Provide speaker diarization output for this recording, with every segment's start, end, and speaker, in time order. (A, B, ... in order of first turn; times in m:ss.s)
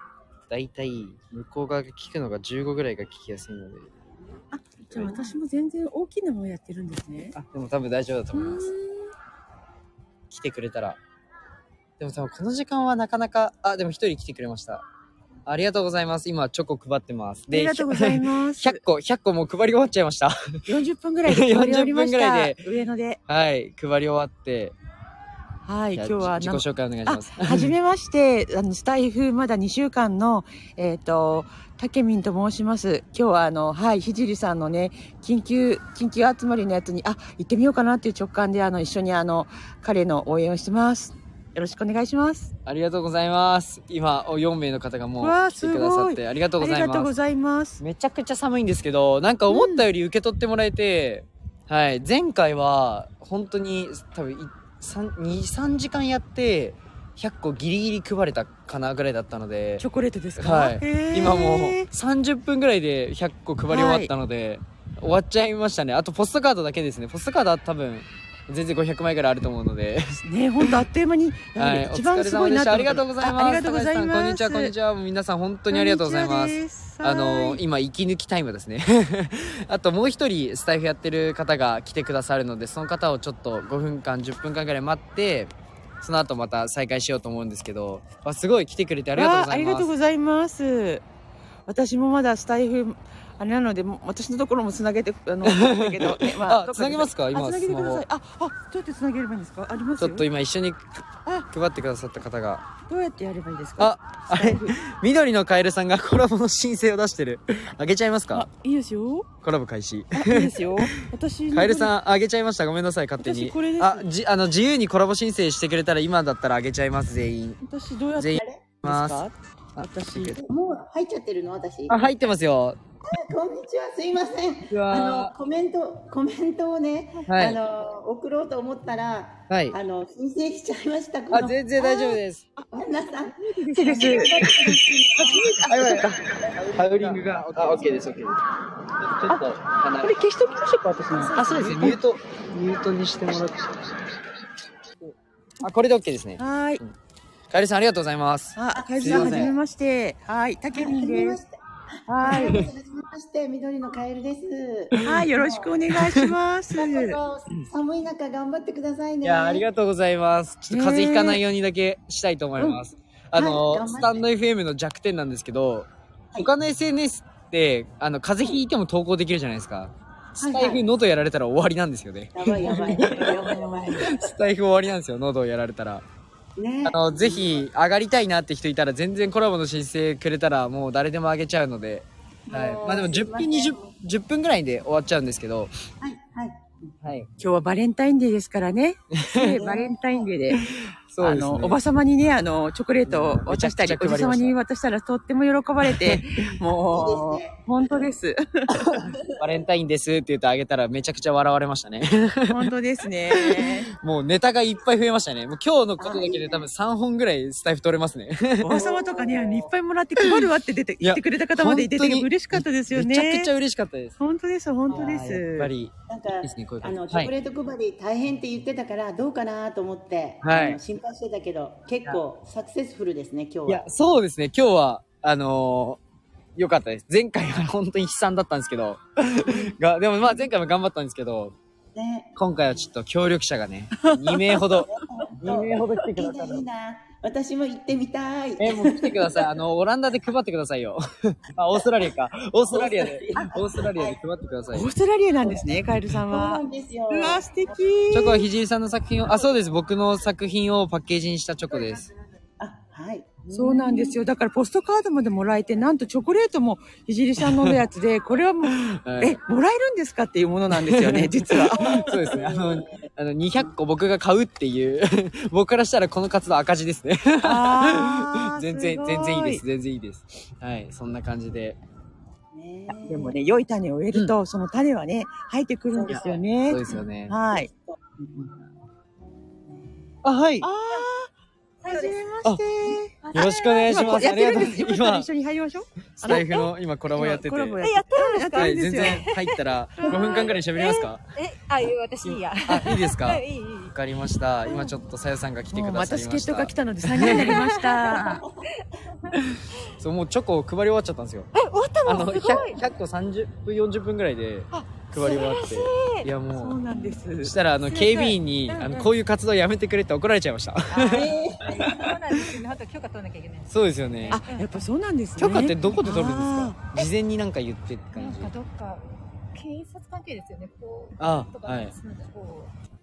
0:00.5-0:03.9 A
0:04.5-0:07.4 B
0:04.9-0:05.4 A
0:07.3-0:08.7 A
0:08.3-0:09.1 B
0:10.3-0:11.0 A
0:12.0-0:14.8 A
0:15.5-0:20.4 A
0:17.5-0:18.8 B
0:20.7-0:23.2 B
0:21.3-0:22.6 A
0:23.3-0:24.8 A
0:25.7-0:42.5 B
0:26.0-0:27.7 A
0:42.7-0:47.2 A
0:45.2-0:47.8 B
0:47.8-0:59.8 A
0:49.5-0:49.9 B
0:59.8-1:01.9 B
1:00.4-1:10.7 A
1:03.7-1:04.1 B
1:10.2-1:14.8 B
1:11.6-1:29.9 A
1:15.7-1:17.6 B
1:29.1-1:31.0 B
1:31.7-1:40.3 B
1:35.4-1:38.0 A
1:40.0-1:42.6 A
1:42.9-1:44.8 B
1:43.8-1:48.5 A
1:48.3-1:49.3 B
1:49.4-1:51.0 A
1:50.1-1:51.9 B
1:51.5-1:57.6 A
1:53.2-1:54.1 B
1:57.6-2:00.4 B
1:58.2-1:59.2 A
1:58.4-1:58.7 C
1:59.8-2:00.4 A
2:00.4-2:02.0 C
2:01.9-2:02.8 A
2:03.1-2:11.8 C
2:04.7-2:05.3 A
2:07.3-2:07.6 A
2:09.5-2:09.8 A
2:11.3-2:12.5 A
2:11.8-2:12.7 B
2:12.7-2:15.5 C
2:13.4-2:16.2 B
2:13.7-2:18.4 A
2:19.0-2:20.3 A
2:20.0-2:22.0 B
2:21.2-2:24.4 A
2:25.0-2:26.9 A
2:26.4-2:26.8 B
2:27.5-2:29.5 A
2:28.6-2:31.4 B
2:28.8-2:29.6 C
2:30.8-2:31.6 C
2:32.1-2:32.6 B
2:32.2-2:35.7 C
2:32.2-2:32.7 A
2:34.9-2:35.2 A
2:35.0-2:37.2 B
2:35.9-2:36.3 A
2:36.8-2:39.7 C
2:39.2-2:56.0 A
2:40.7-2:41.4 B
2:42.6-2:42.8 B
2:43.3-2:44.3 C
2:50.4-2:50.8 C
2:52.4-2:54.3 C
2:56.6-2:57.6 C
2:56.8-3:05.7 A
3:02.5-3:03.9 C
3:06.0-3:06.9 C
3:07.0-3:07.3 A
3:07.4-3:10.6 B
3:09.5-3:10.3 C
3:10.5-3:11.8 A
3:11.2-3:18.4 B
3:13.1-3:14.6 A
3:15.9-3:16.2 A
3:16.9-3:17.6 C
3:18.8-3:22.6 A
3:22.5-3:23.9 B
3:23.3-3:28.8 A
3:26.0-3:26.7 C
3:28.6-3:33.5 B
3:28.7-3:29.7 C
3:31.0-3:34.2 A
3:34.2-3:35.7 B
3:34.9-3:37.3 A
3:36.1-3:43.9 C
3:40.4-3:40.8 A
3:43.7-3:46.0 A
3:46.6-3:51.6 A
3:52.0-3:52.3 C
3:52.4-3:54.9 A
3:54.0-3:54.6 B
3:54.7-3:59.5 C
3:55.4-3:56.7 A
3:58.6-4:04.9 A
4:02.7-4:04.2 C
4:04.7-4:08.5 B
4:06.3-4:07.4 C
4:08.1-4:12.1 A
4:11.7-4:14.2 C
4:13.5-4:22.0 B
4:17.4-4:17.9 A
4:18.7-4:19.4 A
4:20.7-4:31.8 A
4:21.8-4:23.0 C
4:27.4-4:29.6 B
4:32.5-4:33.4 C
4:32.9-4:37.7 B
4:35.9-4:36.4 C
4:36.1-4:37.4 A
4:37.9-4:38.6 C
4:39.7-4:40.2 C
4:40.2-4:40.7 A
4:40.6-4:41.3 B
4:41.8-4:42.1 C
4:41.9-4:42.2 D
4:41.9-4:43.3 B
4:43.2-4:44.7 D
4:43.3-4:45.3 A
4:43.9-4:46.6 B
4:46.2-4:47.8 A
4:46.3-4:46.6 D
4:47.1-4:49.3 B
4:47.8-4:53.9 D
4:48.5-4:51.3 A
4:52.2-4:57.6 A
4:55.7-4:58.4 B
4:57.2-4:58.5 D
4:58.2-4:58.4 C
4:59.9-5:01.5 A
5:01.6-5:02.8 D
5:02.0-5:06.8 A
5:04.7-5:05.4 B
5:05.2-5:06.3 D
5:06.5-5:07.6 B
5:06.9-5:07.2 D
5:07.4-5:12.1 A
5:07.8-5:09.1 D
5:10.9-5:11.3 B
5:11.1-5:11.7 C
5:11.1-5:14.9 D
5:13.7-5:14.4 A
5:14.3-5:16.8 B
5:15.4-5:18.5 A
5:18.2-5:22.7 D
5:21.2-5:21.9 A